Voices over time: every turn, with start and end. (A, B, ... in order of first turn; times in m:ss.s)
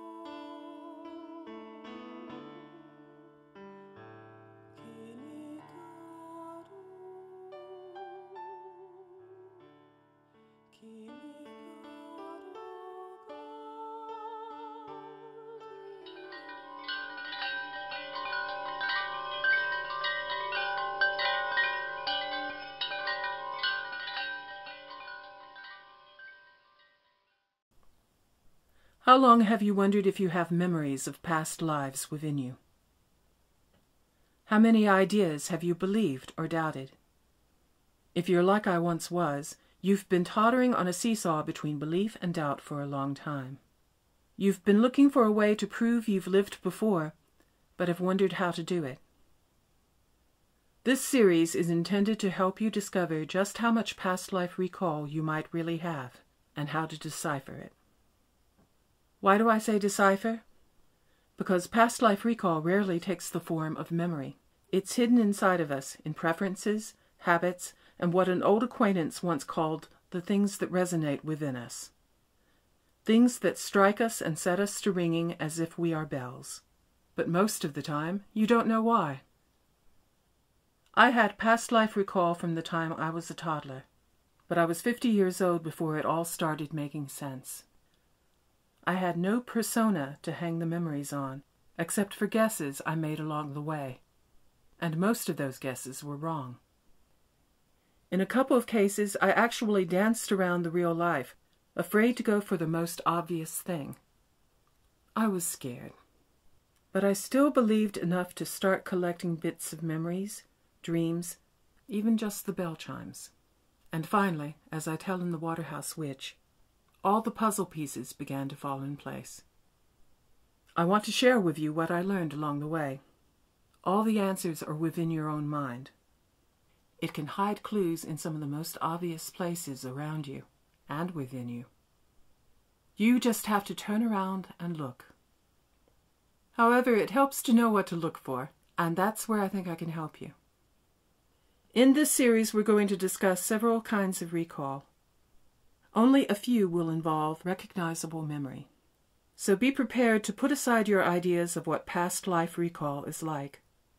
0:04.8-0:09.2 A
0:11.0-0:12.0 A
0:12.5-0:13.2 A
0:14.0-0:14.6 A
0:29.0-0:32.6 A
0:34.4-0:37.0 A
0:38.1-0:43.6 A
0:44.4-0:47.1 A
0:47.8-0:49.0 A
0:50.8-0:57.7 A
0:59.2-1:00.4 A
1:01.4-1:11.9 A
1:13.0-1:16.6 A
1:17.2-1:19.2 A
1:20.9-1:23.8 A
1:24.5-1:27.7 A
1:28.8-1:34.0 A
1:34.8-1:36.6 A
1:38.1-1:44.0 A
1:45.2-1:45.9 A
1:46.9-1:53.3 A
1:53.9-1:56.4 A
1:57.0-1:59.4 A
2:00.8-2:03.0 A
2:03.8-2:05.9 A
2:07.0-2:11.7 A
2:13.0-2:15.1 A
2:16.5-2:20.3 A
2:21.7-2:24.9 A
2:25.9-2:28.7 A
2:29.4-2:33.6 A